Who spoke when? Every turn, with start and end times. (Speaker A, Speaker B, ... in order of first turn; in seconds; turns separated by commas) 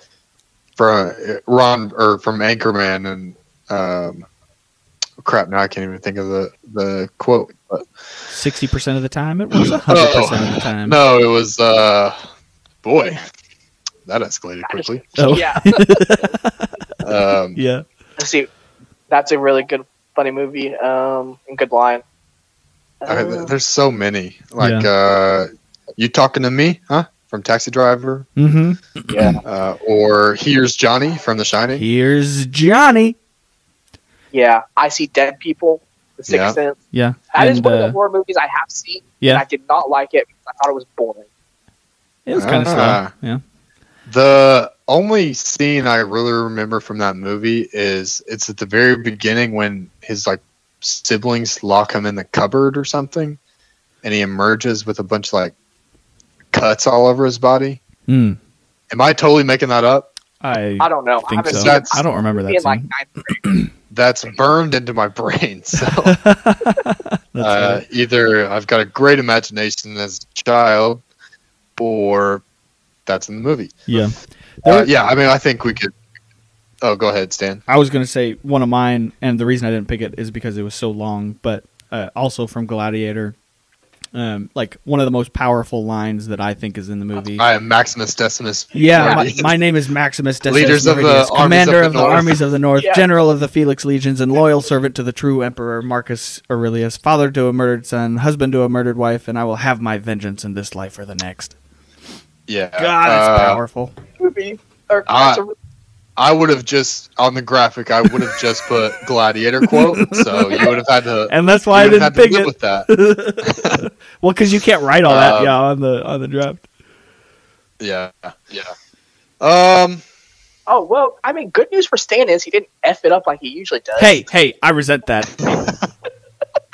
Speaker A: 0.8-4.2, Speaker A: 5.2-7.9, Speaker B: 8.3-11.0, Speaker A: 9.6-12.2, Speaker A: 12.8-13.2, Speaker A: 14.1-15.4, Speaker C: 14.6-16.2, Speaker B: 15.2-16.7, Speaker A: 17.0-17.6, Speaker B: 17.6-17.8, Speaker C: 18.2-18.5, Speaker C: 19.1-22.0, Speaker C: 23.0-23.5, Speaker A: 23.1-28.3, Speaker B: 24.6-24.9, Speaker B: 28.4-29.4, Speaker C: 29.1-29.4, Speaker A: 29.4-31.8, Speaker B: 31.7-33.1, Speaker C: 34.3-36.8, Speaker A: 36.3-36.6, Speaker B: 36.9-38.0, Speaker C: 37.3-41.3, Speaker B: 42.2-43.4, Speaker A: 42.4-43.1, Speaker A: 44.0-53.4, Speaker A: 54.0-55.5, Speaker A: 56.5-57.8, Speaker B: 58.1-58.4, Speaker A: 58.9-60.1, Speaker B: 60.4-62.9, Speaker C: 60.8-63.4, Speaker A: 61.5-62.0, Speaker B: 63.4-63.7, Speaker A: 63.9-66.2, Speaker B: 65.9-67.8, Speaker A: 67.4-71.0, Speaker A: 71.8-72.4, Speaker A: 73.0-73.8, Speaker B: 73.9-74.9, Speaker A: 74.6-75.9, Speaker A: 76.8-77.6, Speaker B: 77.7-83.3, Speaker B: 84.1-87.5, Speaker A: 87.3-89.5, Speaker B: 88.7-101.5, Speaker C: 88.9-89.3, Speaker A: 90.5-92.3, Speaker C: 92.8-93.0, Speaker A: 102.5-103.6, Speaker B: 102.8-103.9, Speaker C: 104.2-105.5, Speaker A: 105.1-105.4, Speaker A: 106.2-112.9, Speaker B: 109.7-110.5, Speaker B: 111.3-116.7, Speaker A: 113.4-113.8, Speaker A: 115.0-115.5, Speaker A: 117.8-118.7, Speaker A: 119.4-120.0, Speaker C: 120.7-124.2, Speaker B: 124.0-125.5, Speaker A: 125.5-125.8